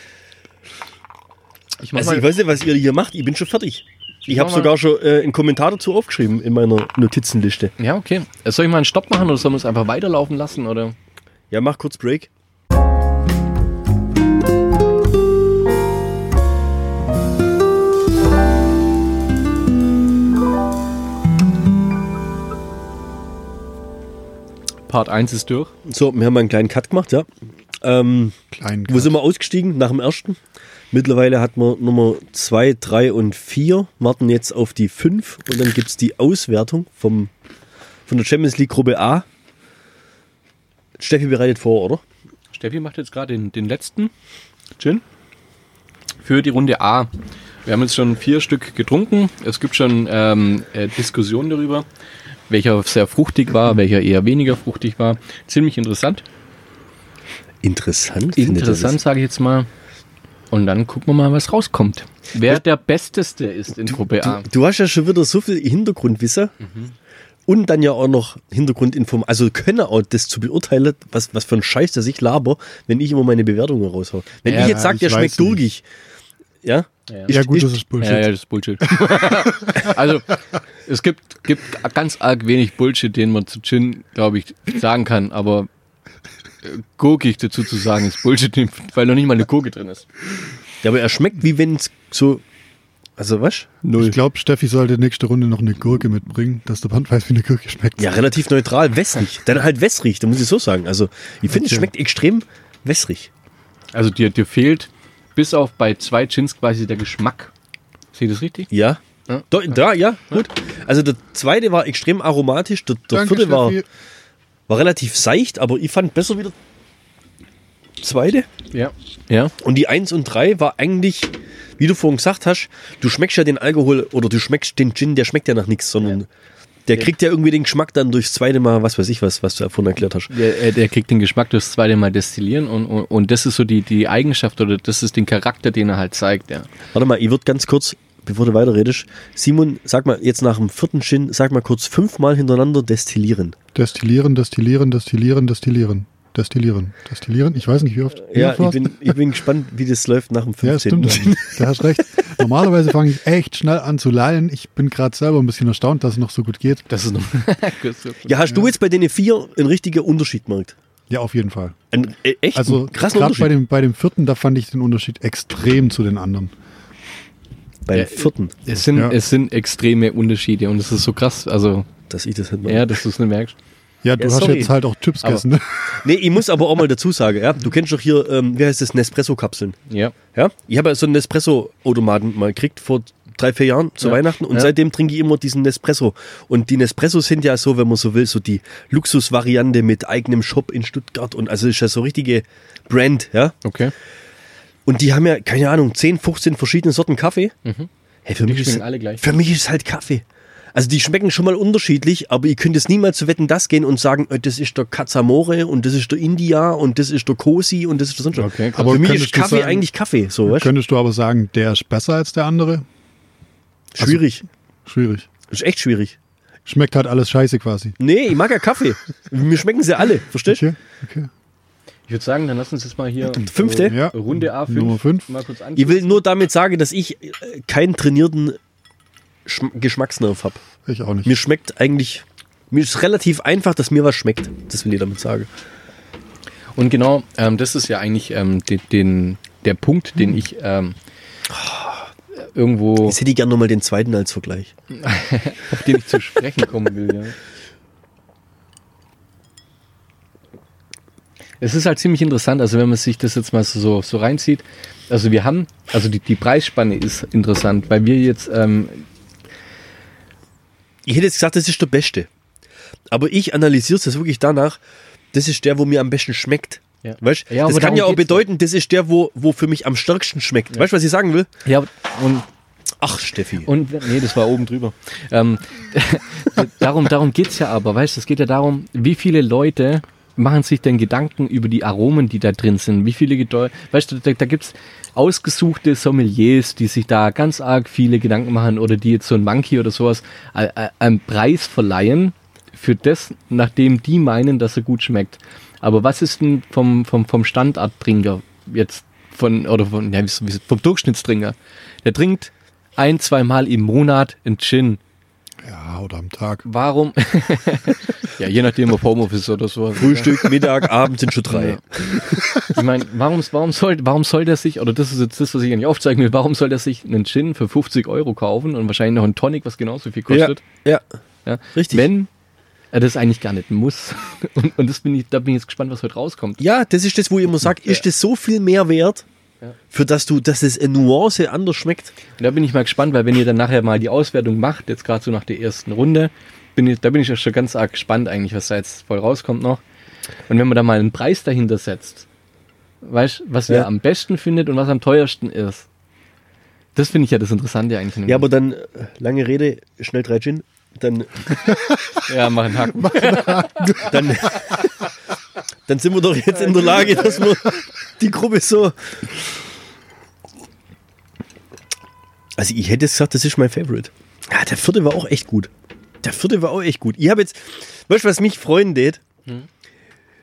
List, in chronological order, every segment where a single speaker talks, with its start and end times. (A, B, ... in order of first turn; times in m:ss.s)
0:01.8-0:02.2 A
0:01.9-0:07.7 B
0:04.3-0:04.7 A
0:07.8-0:11.0 A
0:11.5-0:12.3 B
0:24.9-0:25.7 A
0:25.8-0:27.3 B
0:27.8-0:30.4 B
0:28.5-0:29.2 C
0:30.9-0:37.3 B
0:38.1-0:39.2 B
0:41.0-0:42.0 B
0:42.5-0:44.1 A
0:46.2-0:47.1 A
0:47.6-0:51.8 A
0:52.5-0:56.2 A
0:57.6-0:59.0 B
0:58.4-0:59.7 A
1:00.5-1:04.4 A
1:04.2-1:06.5 B
1:06.6-1:06.9 A
1:07.5-1:15.8 B
1:14.4-1:14.8 A
1:14.5-1:15.6 C
1:16.6-1:17.8 B
1:17.3-1:18.3 C
1:18.0-1:25.7 A
1:26.6-1:30.0 A
1:30.8-1:32.4 B
1:33.2-1:33.7 B
1:33.8-1:34.2 A
1:34.0-1:38.2 C
1:38.0-1:43.3 B
1:41.5-1:41.9 C
1:43.9-1:47.5 A
1:48.1-1:48.7 A
1:48.7-1:53.8 B
1:49.3-1:49.7 A
1:53.1-1:53.8 C
1:54.7-1:56.5 B
1:58.0-1:58.5 B
1:58.7-1:59.5 A
1:59.6-2:06.3 B
2:06.9-2:10.3 B
2:10.3-2:16.7 A
2:16.9-2:23.6 B
2:23.7-2:29.2 C
2:28.2-2:31.6 B
2:30.6-2:36.8 C
2:36.9-2:38.4 A
2:38.2-2:40.7 B
2:41.1-2:41.8 C
2:41.9-2:43.5 B
2:42.5-2:46.5 C
2:47.9-2:48.6 B
2:47.9-2:51.9 A
2:48.9-2:49.2 C
2:52.1-2:52.9 B
2:52.7-2:53.6 A
2:54.0-2:56.0 C
2:54.2-2:54.7 B
2:55.9-2:59.8 B
2:59.9-3:00.1 A
3:00.3-3:13.5 B
3:04.0-3:04.7 A
3:13.6-3:13.9 A
3:14.8-3:17.5 B
3:18.2-3:30.7 B
3:18.4-3:19.2 A
3:28.3-3:29.0 A
3:28.7-3:29.8 C
3:30.5-3:32.8 C
3:33.9-3:34.4 B
3:34.0-3:34.2 C
3:34.8-3:35.3 C
3:35.5-3:36.2 B
3:36.6-3:37.9 C
3:38.0-3:40.6 B
3:40.5-3:41.3 C
3:42.1-3:46.2 A
3:43.4-3:44.0 B
3:43.8-3:45.3 C
3:45.8-3:48.6 B
3:49.4-3:50.6 B
3:50.8-3:51.3 C
3:51.2-3:55.5 B
3:56.8-4:00.9 A
4:01.5-4:02.0 B
4:02.4-4:03.2 A
4:03.0-4:04.7 B
4:05.0-4:07.4 A
4:11.6-4:19.0 A
4:21.0-4:22.3 B
4:23.1-4:24.8 B
4:25.3-4:31.5 B
4:27.0-4:28.4 A
4:31.6-4:32.4 A
4:33.0-4:33.7 B
4:33.6-5:05.0 A
5:05.6-5:06.6 C
5:06.6-5:10.8 A
5:10.0-5:12.4 B
5:11.5-5:11.8 A
5:12.6-5:20.6 A
5:20.3-5:21.0 B
5:21.4-5:22.3 A
5:21.7-5:22.1 B
5:22.9-5:26.6 A
5:26.6-5:29.2 B
5:29.9-5:32.1 B
5:32.4-5:39.8 A
5:40.5-5:42.2 A
5:43.0-5:45.8 A
5:46.9-5:48.5 A
5:48.2-5:51.4 B
5:52.2-5:54.4 A
5:52.9-5:54.1 C
5:54.0-5:54.8 B
5:55.9-5:59.2 B
5:56.6-5:57.4 A
6:02.6-6:05.7 B
6:06.2-6:09.2 B